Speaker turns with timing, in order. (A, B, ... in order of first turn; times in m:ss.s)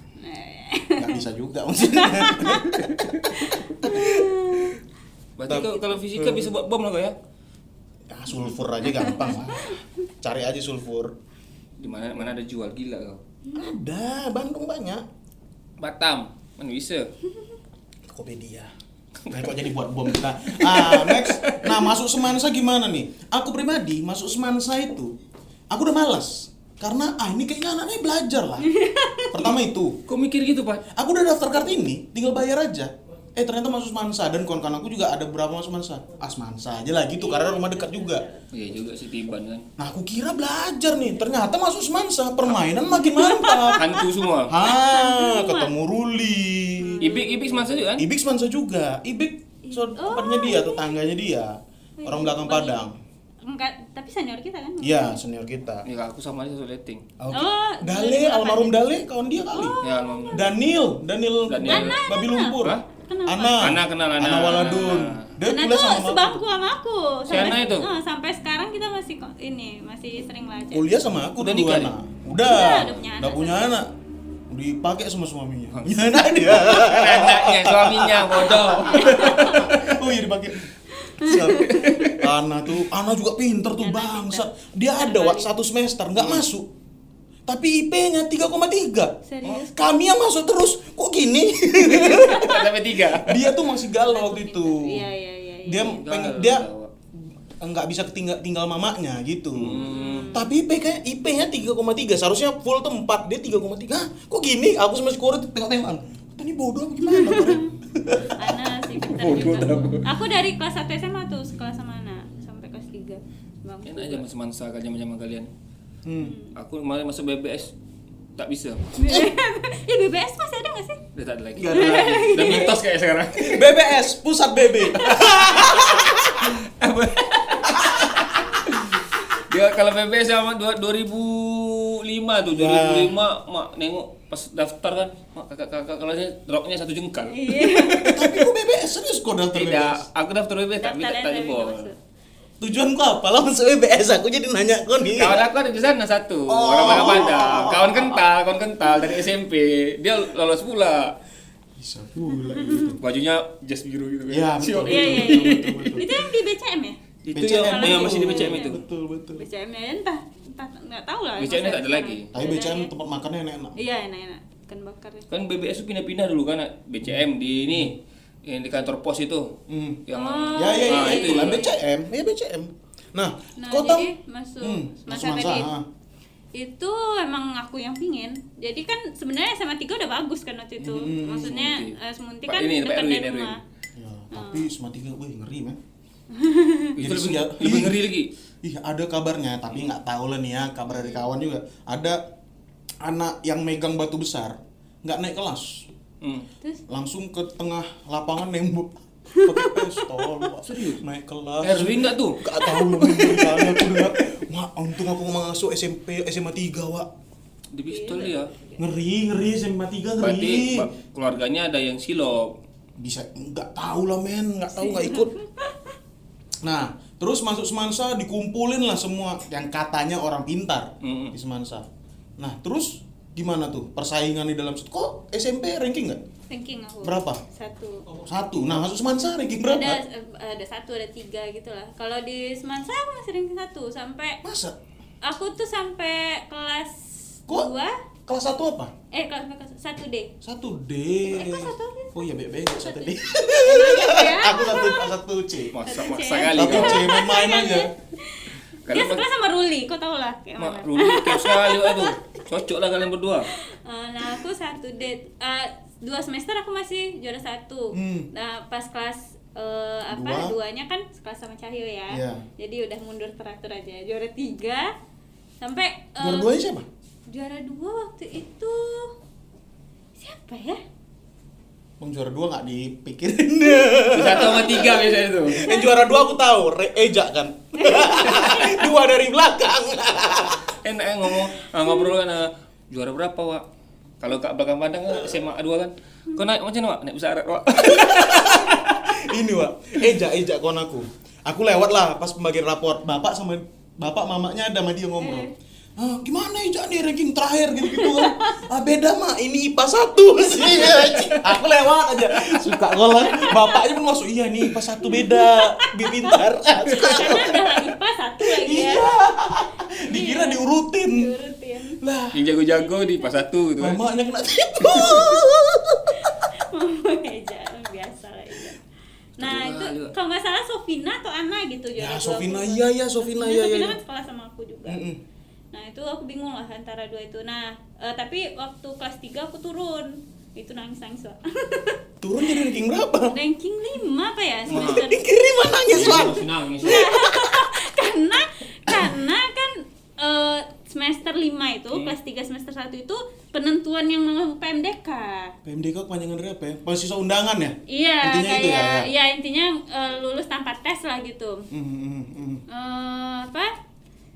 0:00.2-0:01.2 A
0:01.0-0:04.8 B
0:01.8-0:02.8 A
0:03.4-0:04.8 A
0:05.4-0:07.2 C
0:05.5-0:06.5 B
0:08.1-0:11.1 B
0:08.9-0:09.8 A
0:11.8-0:13.2 C
0:13.5-0:15.0 B
0:15.8-0:17.1 C
0:18.1-0:18.7 B
0:19.2-0:19.6 C
0:19.3-0:25.1 B
0:20.6-0:21.9 C
0:25.7-0:28.7 B
0:28.6-0:29.3 A
0:29.3-0:30.0 B
0:29.4-0:30.8 C
0:30.9-0:38.2 B
0:37.2-0:38.0 A
0:38.5-0:39.7 C
0:39.8-0:43.9 B
0:43.0-0:45.7 A
0:43.7-0:44.6 C
0:44.5-0:47.1 B
0:46.8-0:47.6 A
0:47.0-0:48.1 C
0:48.0-0:52.9 B
0:49.6-0:50.9 A
0:52.0-0:52.8 A
0:53.4-0:55.1 A
0:54.8-0:55.8 B
0:55.8-0:57.0 C
0:57.2-0:59.8 B
0:57.3-0:58.8 A
0:59.5-1:00.5 A
0:59.8-1:00.5 C
1:00.3-1:06.4 B
1:01.5-1:02.0 C
1:01.7-1:03.8 A
1:02.6-1:02.8 C
1:03.6-1:05.3 C
1:04.5-1:10.9 A
1:07.3-1:07.9 C
1:10.7-1:13.9 B
1:11.4-1:11.9 C
1:12.4-1:13.7 A
1:14.5-1:20.7 B
1:15.7-1:20.0 C
1:18.8-1:19.7 A
1:20.9-1:22.1 A
1:21.2-1:26.7 B
1:21.6-1:22.1 C
1:23.8-1:25.5 A
1:26.2-1:26.4 C
1:27.4-1:35.1 B
1:29.2-1:29.8 A
1:31.9-1:33.5 C
1:32.1-1:32.5 A
1:34.0-1:36.0 A
1:35.6-1:36.6 B
1:36.0-1:36.9 C
1:37.6-1:39.8 B
1:39.5-1:40.4 C
1:39.8-1:40.4 A
1:40.3-1:48.6 B
1:47.0-1:47.7 A
1:48.3-1:54.2 A
1:49.0-1:50.1 C
1:53.8-1:55.5 C
1:56.0-1:56.4 B
1:56.2-1:56.5 A
1:56.5-1:57.7 C
1:58.4-1:58.9 C
1:59.0-2:01.0 A
2:01.1-2:03.8 C
2:01.5-2:02.7 B
2:01.7-2:02.8 A
2:03.4-2:06.5 B
2:04.8-2:05.5 A
2:05.0-2:18.2 C
2:07.7-2:08.0 B
2:12.5-2:13.2 B
2:17.3-2:18.2 A
2:17.9-2:20.0 B
2:19.5-2:21.9 C
2:20.8-2:22.0 A
2:22.6-2:25.4 B
2:25.1-2:31.1 C
2:26.5-2:28.2 B
2:31.8-2:33.0 B
2:32.6-2:32.9 A
2:33.0-2:36.0 C
2:34.3-2:36.1 B
2:34.8-2:37.0 A
2:37.3-2:38.8 C
2:37.3-2:39.4 B
2:37.6-2:38.7 A
2:39.4-2:42.9 A
2:41.4-2:42.3 C
2:42.3-2:43.8 B
2:43.8-2:45.2 A
2:45.3-2:51.7 C
2:49.7-2:50.0 B
2:50.1-2:51.8 A
2:50.6-2:54.1 B
2:53.6-2:55.7 A
2:54.6-2:55.8 B
2:56.5-3:03.6 A
3:00.8-3:01.6 B
3:01.4-3:02.0 C
3:02.5-3:03.6 C
3:04.0-3:05.8 B
3:04.3-3:04.7 A
3:06.3-3:06.9 A
3:07.0-3:08.3 C
3:07.0-3:08.1 B
3:08.6-3:12.2 B
3:11.0-3:11.2 A
3:13.0-3:15.8 B
3:16.9-3:27.1 B
3:19.3-3:20.3 A
3:20.6-3:21.0 C
3:21.6-3:24.0 C
3:27.7-3:28.5 C
3:27.9-3:28.8 A
3:28.8-3:30.9 B
3:30.2-3:32.5 C
3:33.0-3:35.3 B
3:34.8-3:35.8 A
3:36.6-3:41.8 B
3:41.0-3:41.3 C
3:42.4-3:46.2 B
3:46.5-3:48.0 A
3:47.0-3:47.4 B
3:48.1-3:50.0 B
3:49.6-3:54.4 A
3:54.4-3:54.8 B
3:55.2-3:57.9 A
3:58.3-3:58.9 B
3:59.1-4:00.3 A
4:00.4-4:05.7 B
4:01.3-4:05.1 A
4:05.7-4:07.2 C
4:05.8-4:12.4 A
4:06.5-4:07.9 B
4:08.8-4:09.2 C
4:10.6-4:13.5 C
4:13.5-4:24.9 A
4:17.9-4:18.3 B
4:20.1-4:20.6 B
4:22.1-4:22.4 B
4:25.6-4:26.5 A
4:26.2-4:26.9 B
4:27.3-4:29.1 A
4:30.2-4:30.8 A
4:32.0-4:40.7 B
4:34.1-4:35.7 C
4:34.5-4:36.3 A
4:37.7-4:38.9 A
4:40.8-4:43.6 C
4:44.2-4:48.8 C
4:47.9-5:07.8 B
4:55.2-4:55.5 A
4:57.9-4:58.6 A
5:00.6-5:01.5 C
5:03.0-5:03.8 A
5:05.0-5:09.1 A
5:08.4-5:11.3 B
5:10.0-5:12.0 A
5:12.0-5:12.5 B
5:12.3-5:14.0 C
5:12.8-5:13.3 A
5:13.8-5:16.5 B
5:14.8-5:15.3 C
5:14.8-5:15.2 A
5:16.2-5:18.8 A
5:19.4-5:25.0 A
5:19.4-5:20.1 C
5:22.0-5:24.0 B
5:24.9-5:25.2 B
5:25.7-5:32.6 A
5:32.2-5:33.3 B
5:33.3-5:35.2 A
5:34.7-5:35.1 C
5:34.7-5:37.7 B
5:35.9-5:37.0 C
5:36.8-5:45.5 A
5:38.9-5:39.2 B
5:45.6-5:49.1 B
5:47.9-5:51.6 A
5:51.7-5:52.6 B
5:52.7-5:53.7 A